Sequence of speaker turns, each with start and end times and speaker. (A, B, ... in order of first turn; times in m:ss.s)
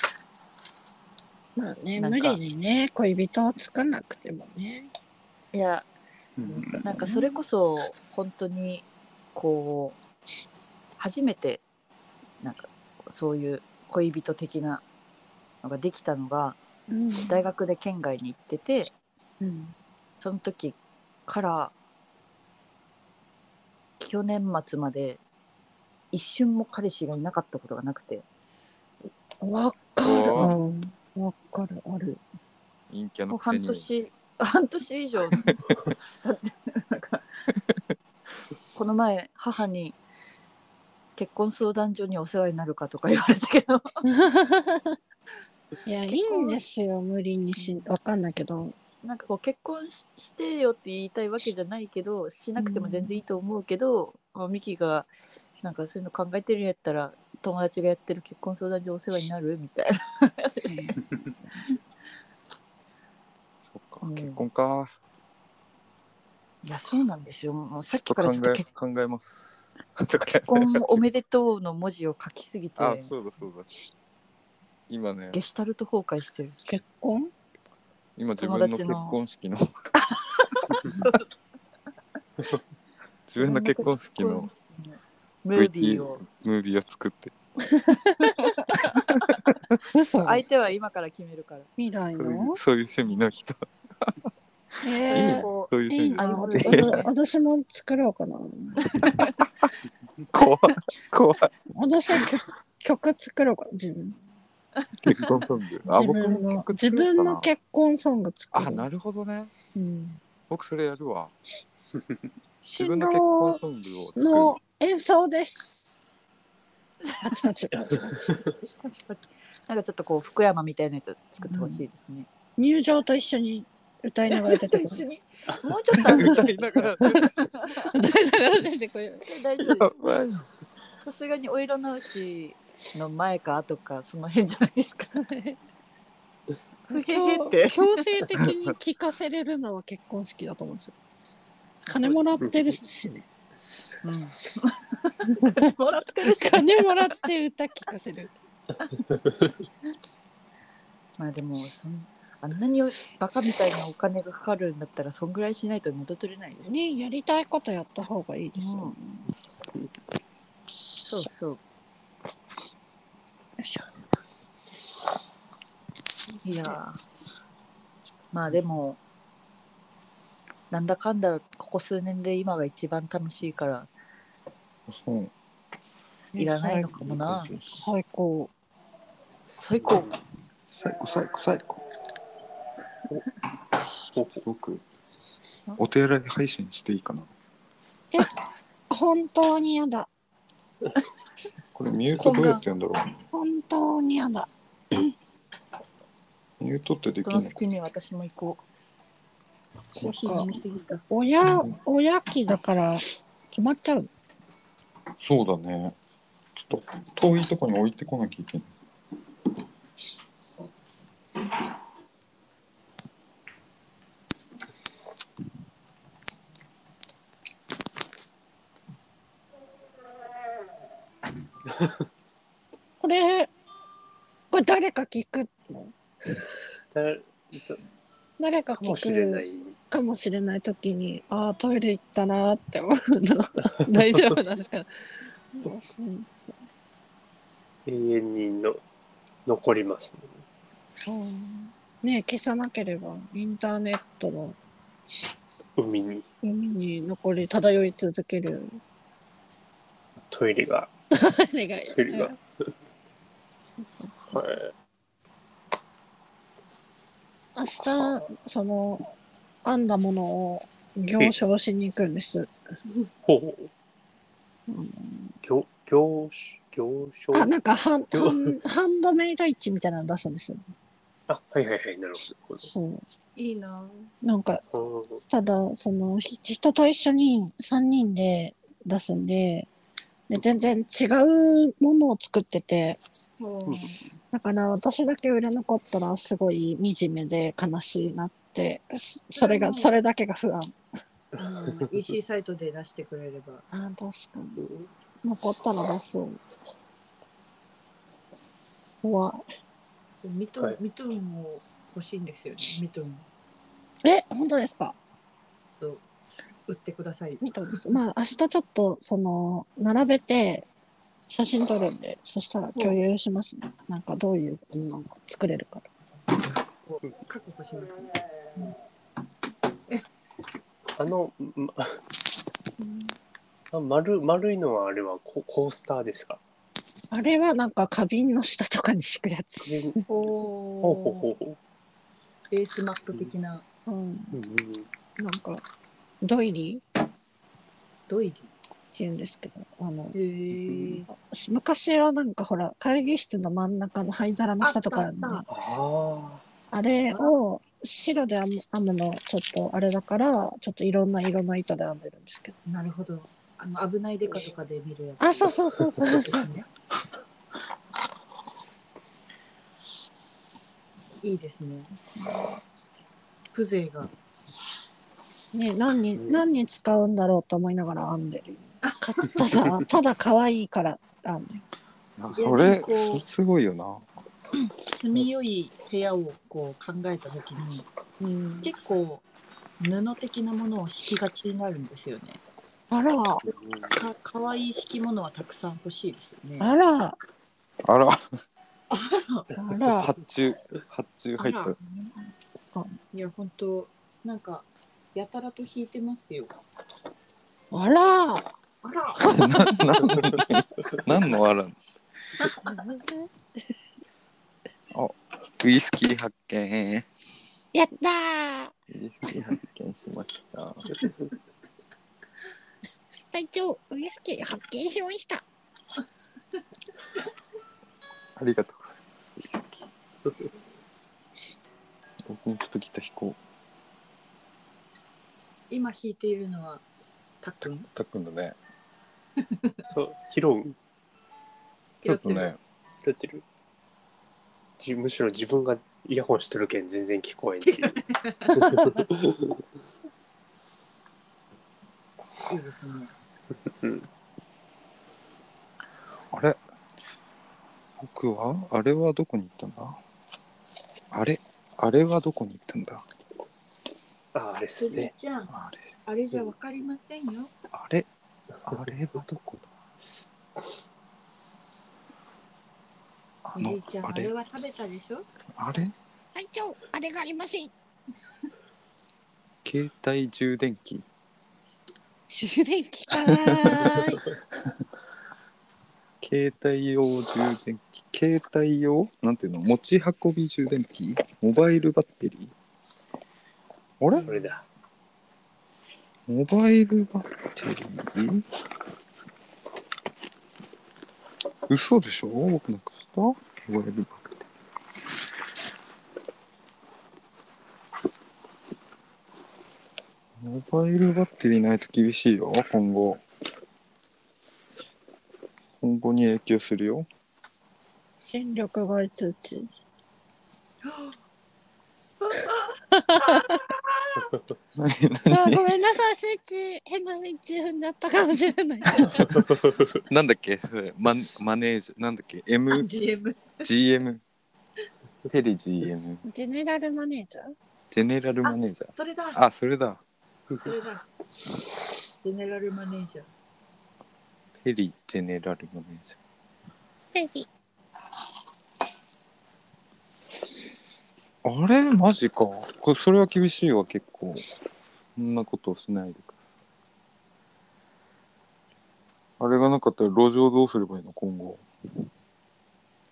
0:01.6-0:04.9 A
0:02.0-0:02.4 B
0:05.5-0:05.9 B
0:06.4-0:06.9 C
0:06.5-0:10.0 B
0:06.9-0:07.4 A
0:11.0-0:11.6 B
0:12.4-0:14.8 B
0:15.6-0:16.6 B
0:16.9-0:17.4 A
0:17.2-0:18.9 B
0:19.4-0:19.7 A
0:20.2-0:21.7 B
0:24.0-0:25.2 B
0:26.1-0:28.2 B
0:29.4-0:32.2 A
0:30.0-0:30.6 D
0:32.9-0:33.9 D
0:33.3-0:35.6 B
0:36.2-0:37.2 B
0:38.7-0:40.0 B
0:41.2-0:44.0 B
0:44.1-0:45.0 A
0:45.9-0:48.8 A
0:46.1-0:46.6 B
0:47.6-0:47.9 B
0:49.0-0:55.1 B
0:52.6-0:53.1 A
0:55.6-1:01.0 B
1:03.7-1:04.9 D
1:04.0-1:04.4 B
1:06.6-1:08.6 B
1:08.1-1:11.0 D
1:10.4-1:13.1 B
1:12.8-1:13.7 D
1:14.9-1:15.4 D
1:15.3-1:16.6 B
1:16.6-1:17.3 A
1:18.2-1:19.7 D
1:18.4-1:19.2 B
1:20.0-1:21.3 B
1:23.3-1:24.5 D
1:23.4-1:26.2 B
1:25.6-1:27.3 D
1:27.9-1:28.3 A
1:28.2-1:29.4 B
1:29.9-1:30.4 A
1:30.2-1:31.7 B
1:31.8-1:32.6 A
1:32.2-1:34.1 D
1:34.8-1:38.9 A
1:35.0-1:37.1 B
1:35.1-1:37.0 D
1:38.8-1:39.4 B
1:40.3-1:41.5 D
1:41.7-1:44.2 A
1:45.0-1:47.5 D
1:45.9-1:48.9 A
1:48.5-1:49.5 D
1:49.7-1:50.2 A
1:50.5-1:51.3 D
1:52.6-1:53.6 A
1:52.8-1:54.6 D
1:54.1-1:56.0 A
1:57.0-1:57.4 B
1:57.2-1:58.4 A
1:57.7-1:58.6 C
1:58.8-2:02.3 B
2:01.4-2:01.8 A
2:02.6-2:05.0 A
2:04.3-2:07.9 B
2:06.0-2:07.4 D
2:07.9-2:09.3 A
2:09.2-2:09.9 B
2:09.8-2:10.5 D
2:11.0-2:15.1 B
2:15.1-2:15.6 A
2:16.9-2:18.1 B
2:16.9-2:20.9 A
2:21.9-2:23.2 A
2:21.9-2:22.4 B
2:22.4-2:22.7 C
2:24.0-2:27.1 B
2:26.2-2:28.3 A
2:29.1-2:29.5 C
2:31.2-2:36.7 B
2:36.6-2:39.2 A
2:38.6-2:38.9 B
2:41.0-2:41.6 B
2:43.6-2:43.9 A
2:46.4-2:47.0 B
2:48.3-2:49.0 B
2:50.7-2:53.9 B
2:54.9-2:55.3 D
2:56.3-2:58.5 A
2:56.4-2:57.5 B
2:57.2-2:57.7 D
2:59.4-3:00.1 B
2:59.8-3:00.2 C
3:00.7-3:01.8 D
3:04.1-3:04.4 C
3:04.4-3:04.8 D
3:05.8-3:07.3 D
3:08.9-3:10.1 A
3:11.7-3:13.2 D
3:12.2-3:12.6 B
3:13.3-3:14.5 A
3:16.6-3:17.6 D
3:17.2-3:18.6 B
3:19.9-3:20.6 A
3:19.9-3:21.0 B
3:21.1-3:24.1 A
3:25.2-3:25.9 D
3:26.6-3:28.7 D
3:41.7-3:42.0 C
3:43.0-3:43.5 A
3:44.5-3:46.5 A
3:46.9-3:47.8 C
3:48.4-3:54.9 A
3:48.8-3:49.7 C
3:53.9-3:54.4 C
3:55.5-3:56.5 A
3:57.9-3:58.8 C
3:59.4-4:00.4 C
4:01.0-4:04.6 A
4:05.8-4:06.2 C
4:06.4-4:08.8 A
4:10.2-4:10.9 C
4:11.1-4:12.4 A
4:11.9-4:12.4 C
4:13.8-4:14.4 A
4:14.3-4:14.7 C
4:17.6-4:22.5 A
4:23.2-4:23.7 C
4:24.7-4:25.3 A
4:25.4-4:27.5 C
4:27.3-4:30.6 A
4:28.1-4:28.6 C
4:31.3-4:32.7 C
4:32.6-4:33.0 A
4:33.4-4:34.1 B
4:34.2-4:34.6 A
4:34.7-4:35.2 C
4:35.3-4:39.7 A
4:40.3-4:43.0 A
4:43.4-4:44.0 B
4:44.3-4:50.7 A
4:49.4-4:49.9 B
4:51.4-4:51.8 C
4:51.4-4:53.6 B
4:53.7-4:54.6 A
4:55.2-4:56.4 A
4:59.0-4:59.4 A
5:00.2-5:03.2 B
5:04.0-5:05.0 A
5:06.7-5:08.0 B
5:07.4-5:10.6 A
5:11.3-5:15.9 A
5:16.8-5:18.2 B
5:20.9-5:22.0 C
5:22.8-5:23.1 A
5:23.7-5:26.4 C
5:27.1-5:30.1 A
5:29.6-5:30.0 C
5:30.1-5:31.3 B
5:30.8-5:31.6 C
5:32.5-5:33.6 B
5:33.9-5:34.4 A
5:34.3-5:34.9 C
5:35.2-5:35.6 A
5:36.2-5:36.8 A
5:38.1-5:38.5 B
5:38.9-5:40.2 A
5:40.1-5:41.1 B
5:40.7-5:40.9 C
5:41.1-5:45.5 A
5:44.6-5:45.4 B
5:45.5-5:46.4 C
5:46.7-5:52.6 A
5:52.6-5:56.7 B
5:55.2-5:56.5 A
6:01.2-6:02.0 B
6:03.5-6:04.1 B
6:05.5-6:11.6 A
6:06.2-6:06.4 C
6:08.8-6:09.4 B
6:12.2-6:14.1 D
6:12.3-6:13.2 B
6:14.6-6:17.9 B
6:18.2-6:18.7 A
6:18.6-6:19.2 B
6:19.8-6:22.4 B
6:22.9-6:23.5 A
6:23.9-6:26.7 B
6:26.6-6:27.2 A
6:27.8-6:28.2 D
6:28.9-6:29.5 B
6:29.6-6:30.1 A
6:29.9-6:31.8 D
6:31.4-6:32.1 B
6:33.1-6:36.5 B
6:37.7-6:38.4 A
6:38.8-6:39.4 B
6:39.2-6:41.7 D
6:42.6-6:43.3 A
6:44.9-6:47.1 D
6:47.7-6:48.7 A
6:48.9-6:51.0 D
6:53.3-6:55.4 A
6:58.4-6:59.6 D
7:02.2-7:03.4 D
7:05.7-7:06.8 B
7:07.4-7:07.9 B
7:07.6-7:08.6 D
7:09.9-7:10.8 C
7:12.0-7:12.5 B
7:12.0-7:12.6 D
7:13.0-7:13.4 C
7:14.8-7:18.0 C
7:17.6-7:18.7 B
7:18.5-7:19.5 C
7:22.5-7:23.1 B
7:23.7-7:24.0 C
7:26.3-7:26.6 D
7:28.0-7:30.0 D
7:31.1-7:33.0 D
7:34.3-7:35.1 C
7:34.8-7:35.5 B
7:35.5-7:35.8 D
7:36.1-7:37.5 B
7:37.7-7:38.1 D
7:38.6-7:39.7 D
7:43.4-7:44.3 D
7:43.6-7:45.2 B
7:45.6-7:45.9 D
7:46.4-7:47.7 A
7:49.6-7:51.0 D
7:52.3-7:54.2 A
7:53.2-7:54.1 D
7:56.2-8:02.5 D
8:04.0-8:04.4 D
8:04.1-8:04.6 C
8:06.3-8:08.4 D
8:11.7-8:14.4 D
8:20.4-8:23.2 D
8:25.8-8:27.1 D
8:28.2-8:29.7 A
8:30.8-8:31.2 B
8:32.2-8:34.1 B
8:33.1-8:33.6 A
8:34.7-8:35.6 D
8:35.3-8:39.2 A
8:39.2-8:40.0 C
8:40.1-8:42.9 D
8:42.7-8:43.6 B
8:43.6-8:44.2 D
8:45.3-8:46.2 D
8:46.2-8:47.5 A
8:47.9-8:50.0 D
8:48.4-8:49.4 B
8:50.6-8:51.0 B
8:52.2-8:53.3 B
8:54.6-8:56.2 D
8:57.1-8:57.5 A
9:01.4-9:04.5 D
9:05.2-9:06.3 D
9:09.4-9:11.6 D